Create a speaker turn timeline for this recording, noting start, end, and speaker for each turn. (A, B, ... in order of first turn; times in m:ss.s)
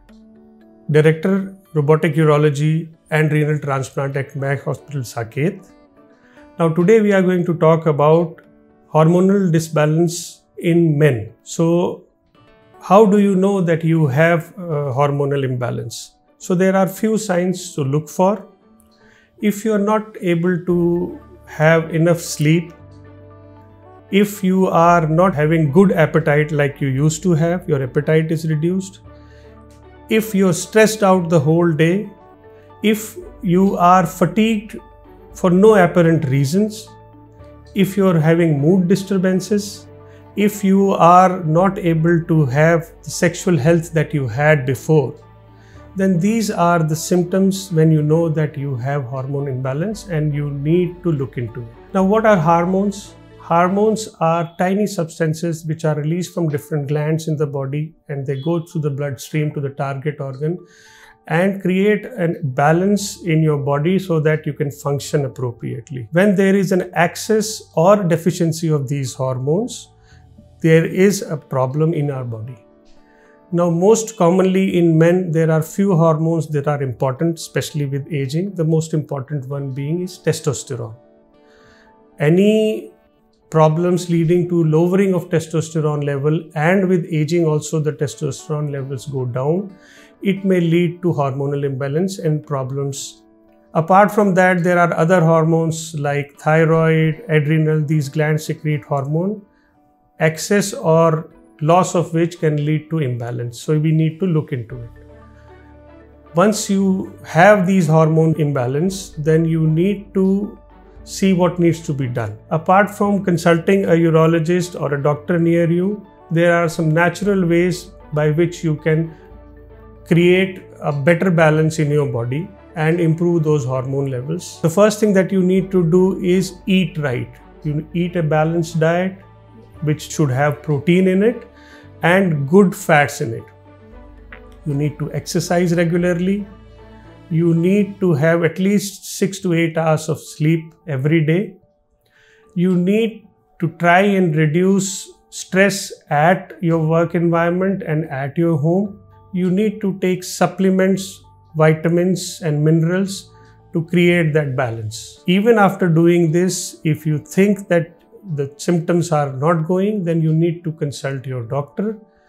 0:00.9-0:05.7 A
0:06.6-0:12.1 A
0:12.8-0:18.5 A
0:19.4-0:22.8 A
0:24.1-0:29.0 A
0:30.1-0:32.2 A
0:32.8-0:34.8 A
0:35.4-0:37.0 A
0:37.8-0:45.2 A
0:46.0-1:00.6 A
1:01.3-1:09.9 A
1:10.6-1:12.6 A
1:13.5-1:21.0 A
1:22.2-1:22.9 A
1:23.5-1:33.2 A
1:33.7-1:39.4 A
1:40.2-1:45.0 A
1:46.3-1:59.2 A
2:00.1-2:09.3 A
2:09.8-2:11.5 A
2:12.0-2:13.5 A
2:14.6-2:16.5 A
2:17.3-2:21.6 A
2:22.6-2:42.0 A